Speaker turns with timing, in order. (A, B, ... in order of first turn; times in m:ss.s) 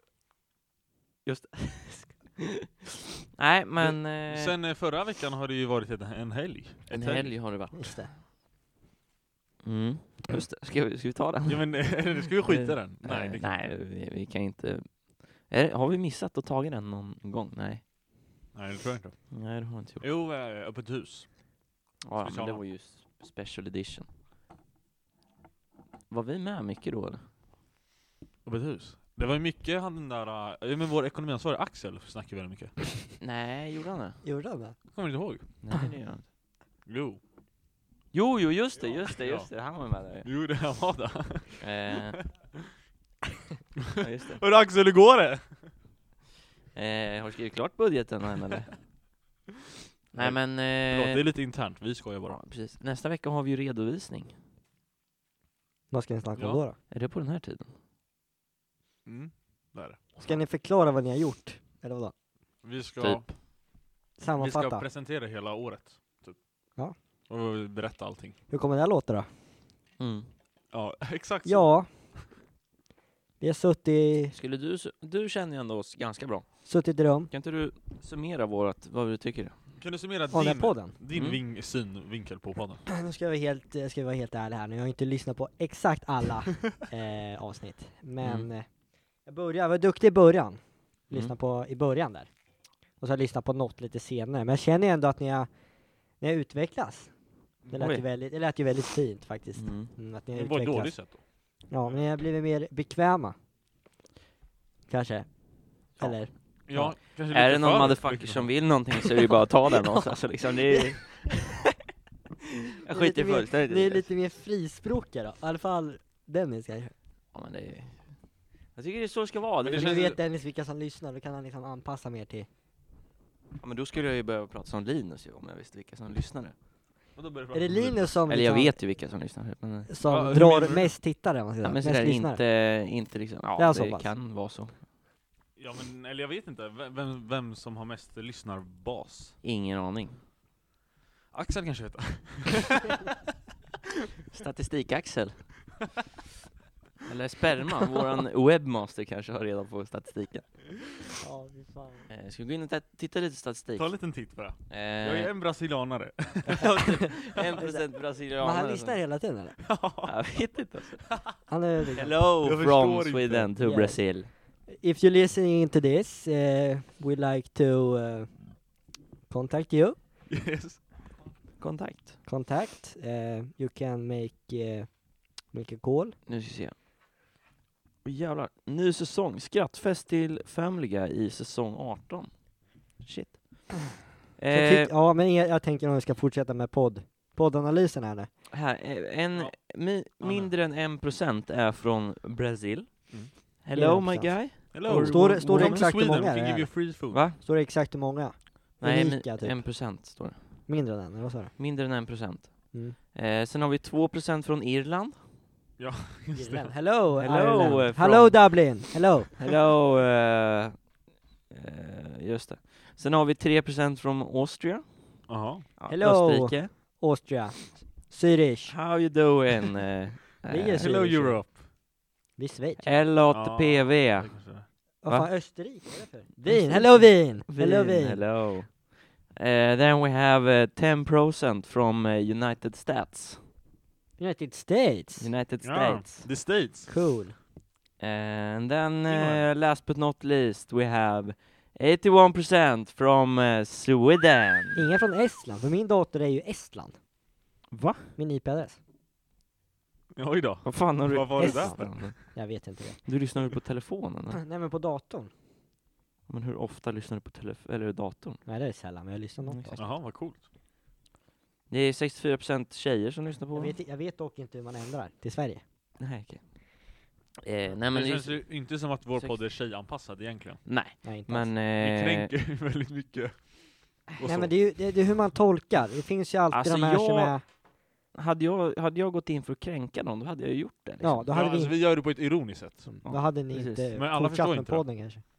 0:01.3-0:04.6 A
0:03.8-0:07.3 B
0:06.9-0:08.2 A
0:07.8-0:08.1 C
0:09.6-0:11.7 A
0:11.5-0:13.6 B
0:12.4-0:17.8 A
0:18.6-0:19.2 B
0:19.3-0:20.0 A
0:20.0-0:21.3 B
0:22.1-0:24.1 A
0:22.2-0:22.6 B
0:26.1-0:27.2 A
0:28.4-0:32.8 B
0:33.2-0:34.2 A
0:34.2-0:34.8 C
0:35.0-0:35.4 B
0:35.6-0:36.2 A
0:36.9-0:37.2 B
0:38.1-0:40.3 A
0:39.0-0:39.5 B
0:40.2-0:42.6 B
0:41.6-0:42.2 A
0:43.8-0:45.5 B
0:44.0-0:44.4 A
0:46.7-0:48.7 A
0:50.1-0:51.2 A
0:50.2-0:52.4 B
0:52.3-0:54.4 A
0:55.9-0:56.8 C
0:56.4-0:56.6 B
0:56.9-0:57.7 A
0:59.0-1:00.2 B
1:00.2-1:02.1 C
1:02.6-1:03.3 B
1:03.0-1:03.3 A
1:04.2-1:04.8 C
1:04.4-1:06.4 B
1:07.3-1:08.4 B
1:08.5-1:09.3 C
1:10.0-1:10.3 A
1:10.7-1:11.7 B
1:11.4-1:11.9 C
1:13.4-1:14.4 C
1:14.3-1:16.5 A
1:16.7-1:17.3 C
1:17.3-1:19.6 A
1:19.8-1:22.8 B
1:20.3-1:21.0 C
1:21.1-1:21.4 A
1:22.9-1:28.7 C
1:28.2-1:28.5 A
1:29.3-1:32.3 C
1:33.0-1:35.5 C
1:36.2-1:37.1 C
1:37.7-1:41.0 C
1:37.8-1:38.0 A
1:39.6-1:39.9 A
1:40.4-1:41.2 B
1:41.7-1:43.4 C
1:44.9-1:45.3 C
1:46.0-1:47.0 C
1:46.7-1:48.5 B
1:47.3-1:51.6 A
1:52.8-1:54.1 A
1:52.9-1:56.9 C
1:57.3-1:58.1 A
1:58.8-2:00.1 A
1:59.6-2:00.2 B
1:59.7-2:02.5 C
2:03.6-2:06.6 A
2:07.2-2:08.2 B
2:07.5-2:08.8 C
2:08.3-2:09.9 A
2:09.9-2:12.4 C
2:10.1-2:10.9 B
2:11.6-2:14.8 A
2:13.6-2:14.1 C
2:15.6-2:19.4 B
2:19.4-2:20.2 A
2:21.3-2:23.1 B
2:24.3-2:25.5 A
2:27.0-2:31.2 A
2:31.2-2:32.1 C
2:32.1-2:33.9 A
2:33.8-2:37.6 B
2:34.7-2:35.3 A
2:36.4-2:39.0 A
2:36.8-2:39.6 C
2:39.6-2:40.1 B
2:40.0-2:41.2 A
2:41.5-2:42.2 C
2:42.0-2:44.3 A
2:42.2-2:43.5 B
2:43.6-2:48.4 C
2:49.3-2:50.0 C
2:50.3-2:50.8 B
2:51.6-2:52.2 A
2:52.2-2:54.9 C
2:55.5-2:56.2 C
2:56.3-2:56.8 A
2:58.0-3:02.3 A
3:03.0-3:04.9 A
3:04.5-3:08.3 C
3:08.5-3:15.8 A
3:10.2-3:10.5 B
3:13.7-3:16.8 C
3:14.7-3:17.2 B
3:17.1-3:17.4 A
3:17.4-3:19.6 C
3:18.8-3:20.4 A
3:20.7-3:21.5 C
3:21.6-3:25.2 A
3:25.8-3:26.7 B
3:26.3-3:29.4 C
3:27.2-3:28.6 A
3:29.4-3:30.8 A
3:31.5-3:35.2 A
3:35.3-3:35.6 B
3:35.8-3:36.7 A
3:35.9-3:38.7 C
3:38.7-3:41.1 A
3:40.5-3:41.4 C
3:40.8-3:41.6 B
3:42.4-3:42.9 C
3:42.8-3:44.3 A
3:43.3-3:44.7 B
3:45.0-3:48.2 C
3:46.4-3:53.4 A
3:54.2-3:55.3 C
3:55.2-3:56.3 A
3:55.6-3:56.9 B
3:56.9-3:57.4 C
3:58.0-4:04.8 A
3:59.1-3:59.5 B
4:04.8-4:07.0 C
4:07.7-4:08.1 A
4:08.2-4:08.8 C
4:10.2-4:12.0 B
4:10.6-4:12.3 A
4:11.4-4:13.0 C
4:13.0-4:14.4 A
4:14.3-4:15.3 C
4:16.3-4:18.4 A
4:18.5-4:19.8 C
4:19.4-4:19.8 A
4:19.8-4:20.4 B
4:21.7-4:23.8 A
4:23.6-4:25.6 C
4:26.0-4:26.4 A
4:27.4-4:28.4 A
4:27.9-4:30.6 B
4:30.7-4:32.3 A
4:31.0-4:31.5 C
4:31.8-4:33.5 B
4:34.1-4:34.5 B
4:34.2-4:37.4 C
4:36.5-4:37.4 A
4:38.1-4:41.3 A
4:41.0-4:41.7 C
4:41.3-4:42.9 B
4:42.9-4:45.2 C
4:43.0-4:43.9 A
4:44.0-4:44.8 B